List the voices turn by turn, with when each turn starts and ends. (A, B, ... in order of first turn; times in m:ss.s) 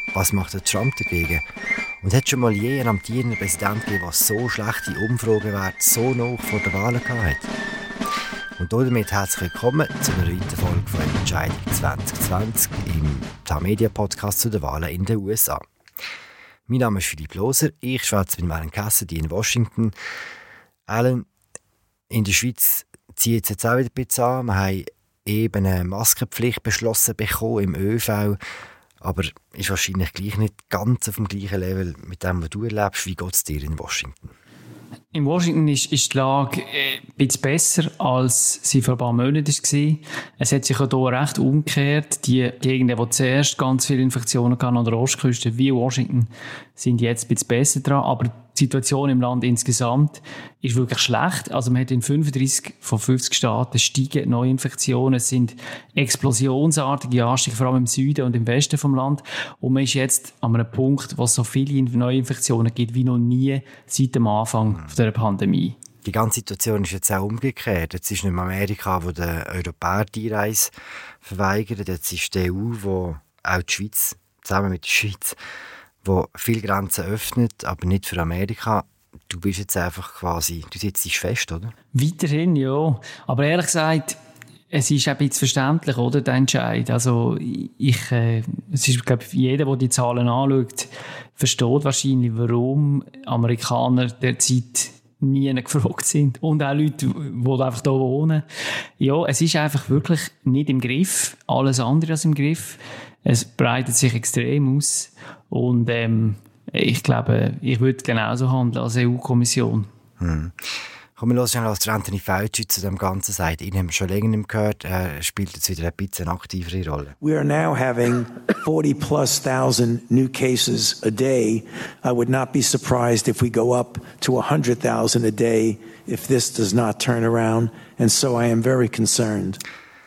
0:00.1-0:01.4 A
0:02.0-0:07.5 A
0:08.6-0:15.6 A
0:16.7-0:19.9 A
0:20.9-0:21.3 A
0:22.1-0:28.4 A
0:29.0-0:34.3 A
0:35.1-1:05.8 B
1:06.0-1:15.4 A
1:16.0-1:21.7 A
1:21.9-1:24.2 B
1:24.7-1:38.4 B
1:39.0-1:49.9 B
1:50.2-1:57.1 A
1:57.2-2:09.6 C